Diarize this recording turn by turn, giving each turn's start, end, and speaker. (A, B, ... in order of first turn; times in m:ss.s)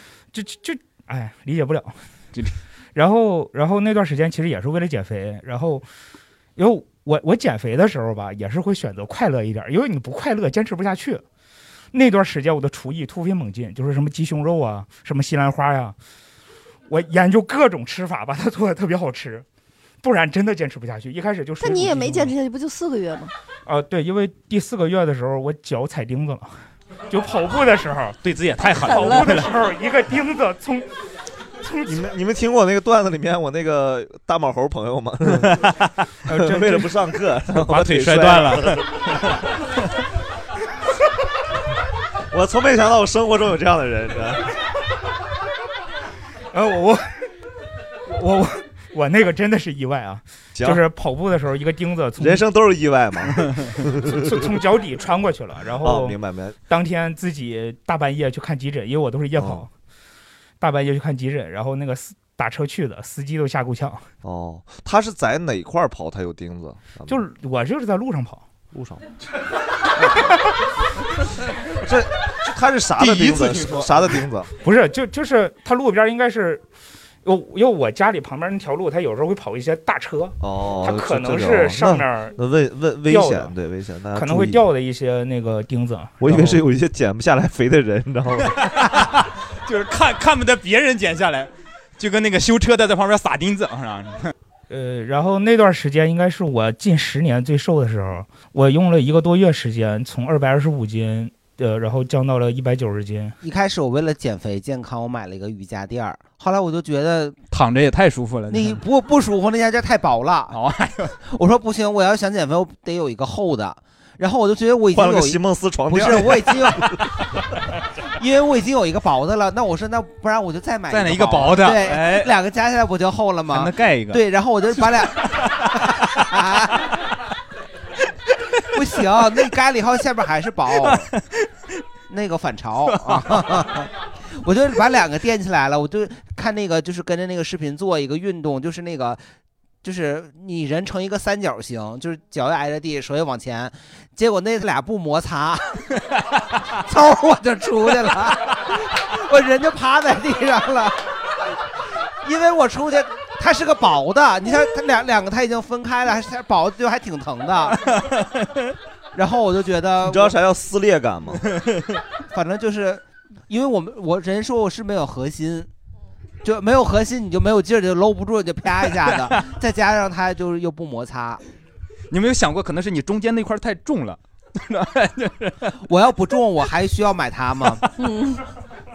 0:00.3-0:02.0 A
0:03.0-0:05.8 A
0:06.6-0:11.2 A
0:11.9-0:16.0 A
0:16.9-0:19.4 A
0:20.0-0:22.3 A
0:21.6-0:23.3 B
0:23.7-0:26.5 A
0:27.1-0:28.2 A
0:28.2-0:29.5 C
0:28.8-0:30.9 A
0:28.9-0:29.3 B
0:31.6-0:32.0 A
0:31.8-0:35.7 D
0:35.4-0:35.9 C
0:36.3-0:38.9 D
0:36.3-0:36.9 A
0:37.5-0:39.4 C
0:42.3-0:44.5 D
0:46.5-0:47.3 A
0:48.1-0:52.4 A
0:50.6-0:50.9 D
0:52.2-0:54.2 D
0:54.1-0:56.2 A
0:55.8-0:56.6 D
0:56.7-0:59.7 A
0:59.4-0:59.6 D
1:00.6-1:04.1 A
1:04.2-1:07.2 D
1:07.1-1:08.5 A
1:08.7-1:09.0 D
1:11.8-1:14.5 D
1:13.0-1:14.2 C
1:14.6-1:16.6 A
1:17.2-1:22.4 A
1:20.4-1:24.6 D
1:23.1-1:23.5 A
1:24.2-1:26.1 A
1:26.2-1:28.6 D
1:28.6-1:34.3 C
1:34.7-1:43.4 A
1:43.4-1:47.4 E
1:47.5-1:48.8 C
1:48.5-1:50.6 E
1:50.5-1:51.2 C
1:51.2-1:57.0 E
1:54.9-1:57.0 D
1:58.2-2:06.9 E
2:00.9-2:02.3 C
2:03.5-2:04.2 C
2:04.8-2:06.2 C
2:08.7-2:11.1 E
2:10.8-2:11.2 C
2:12.1-2:19.2 E
2:12.9-2:13.6 C
2:19.8-2:25.8 E
2:26.8-2:31.0 E
2:32.2-2:37.8 E
2:37.9-2:38.5 C
2:39.1-2:40.4 E
2:40.0-2:41.4 D
2:42.3-2:45.7 E
2:46.4-2:51.4 E
2:49.1-2:49.4 C
2:52.1-2:55.8 C
2:55.8-2:57.8 E
2:58.0-2:58.4 B